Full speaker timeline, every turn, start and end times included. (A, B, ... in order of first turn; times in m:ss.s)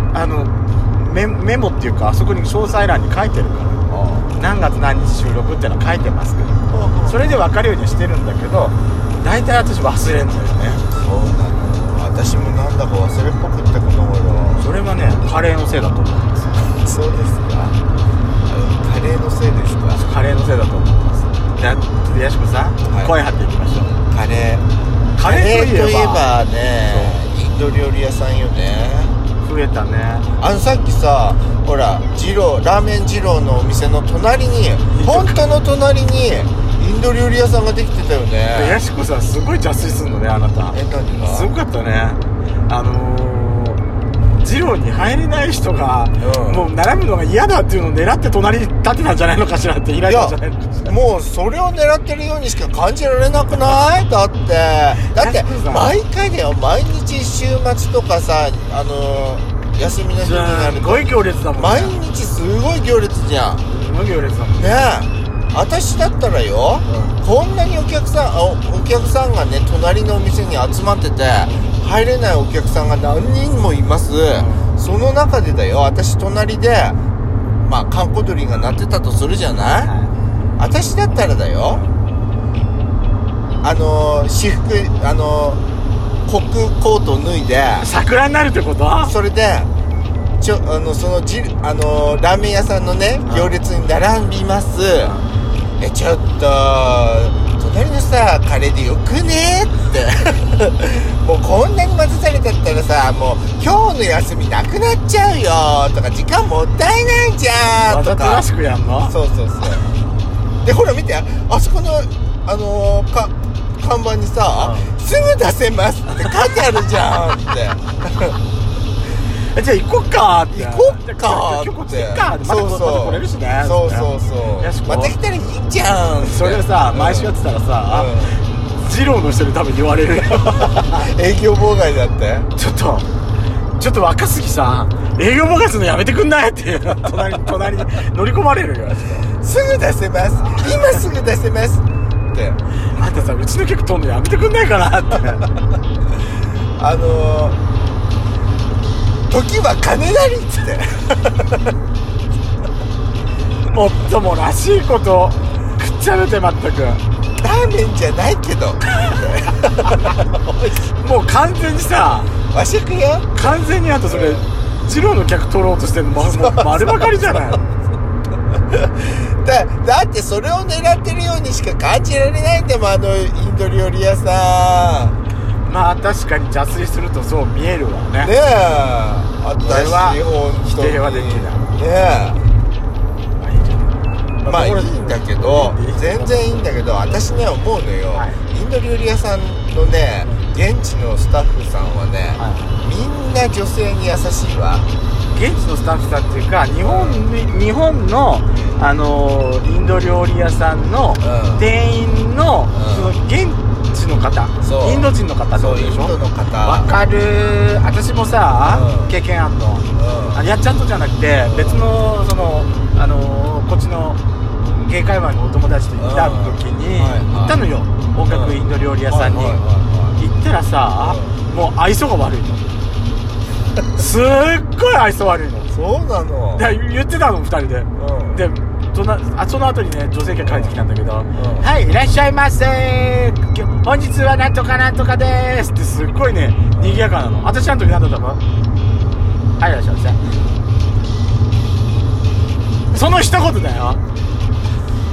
0:00.1-0:03.8 A
0:03.9-0:04.3 B
0:04.3-0:10.8 A
0:06.7-0:07.2 B
0:11.0-0:14.7 B
0:14.6-0:16.6 A
0:16.7-0:17.8 B
0:18.5-0:20.0 B
0:19.9-0:24.0 A
0:22.8-0:23.1 B
0:24.1-0:24.6 B
0:25.2-0:26.3 A
0:25.2-0:29.2 B
0:26.8-0:27.2 A
0:29.4-0:30.3 A
0:30.4-0:38.8 B
0:34.9-0:35.6 A
0:38.5-0:43.8 A
0:40.7-0:41.5 B
0:44.4-0:50.9 A
0:46.2-0:46.7 B
0:50.0-1:03.6 B
0:55.1-0:55.9 A
1:00.2-1:01.9 A
1:03.7-1:04.7 A
1:04.5-1:17.0 B
1:06.9-1:07.1 A
1:11.4-1:11.7 A
1:14.4-1:14.7 A
1:17.6-1:19.9 B
1:19.8-1:20.1 A
1:20.6-1:21.8 B
1:21.7-1:21.9 A
1:23.6-1:25.6 B
1:26.2-1:27.9 B
1:27.8-1:29.1 A
1:29.0-1:29.7 B
1:30.4-1:35.1 B
1:33.2-1:33.5 A
1:35.8-1:48.4 B
1:47.9-1:49.1 A
1:49.0-1:49.8 B
1:50.6-1:58.4 B
1:54.6-1:54.9 A
1:59.5-2:04.1 A
2:00.5-2:07.3 B
2:04.6-2:05.1 A
2:06.2-2:08.1 A
2:07.9-2:08.4 B
2:08.8-2:11.0 A
2:10.4-2:12.5 B
2:12.5-2:13.1 A
2:13.8-2:19.3 A
2:19.4-2:22.6 B
2:20.4-2:21.0 A
2:22.9-2:25.5 A
2:26.8-2:27.6 B
2:29.3-2:31.7 B
2:33.7-2:37.0 A
2:37.4-2:40.9 B
2:41.0-2:42.3 A
2:42.5-2:44.5 B
2:43.3-2:47.6 A
2:46.2-2:47.7 B
2:48.7-2:55.1 B
2:55.6-2:58.3 A
2:58.2-3:02.4 B
2:59.6-3:01.7 A
3:03.4-3:06.7 A
3:04.4-3:14.9 B
3:08.1-3:08.4 A
3:12.4-3:12.7 A
3:15.3-3:34.2 A
3:16.8-3:17.3 B
3:18.5-3:18.8 B
3:21.2-3:21.7 B
3:22.7-3:23.1 B
3:24.6-3:27.0 B
3:28.6-3:29.1 B
3:30.0-3:30.4 B
3:31.4-3:31.8 B
3:34.8-3:39.6 A
3:36.0-3:37.6 B
3:38.3-3:38.6 B
3:39.1-3:40.2 B
3:40.2-3:42.7 A
3:41.0-3:41.4 B
3:43.9-3:45.7 A
3:45.7-3:46.7 B
3:46.5-3:58.4 A
3:48.0-3:48.4 B
3:50.4-3:50.8 B
3:51.3-3:51.7 B
3:56.7-3:57.1 B
3:59.6-4:00.2 A
4:02.9-4:04.0 A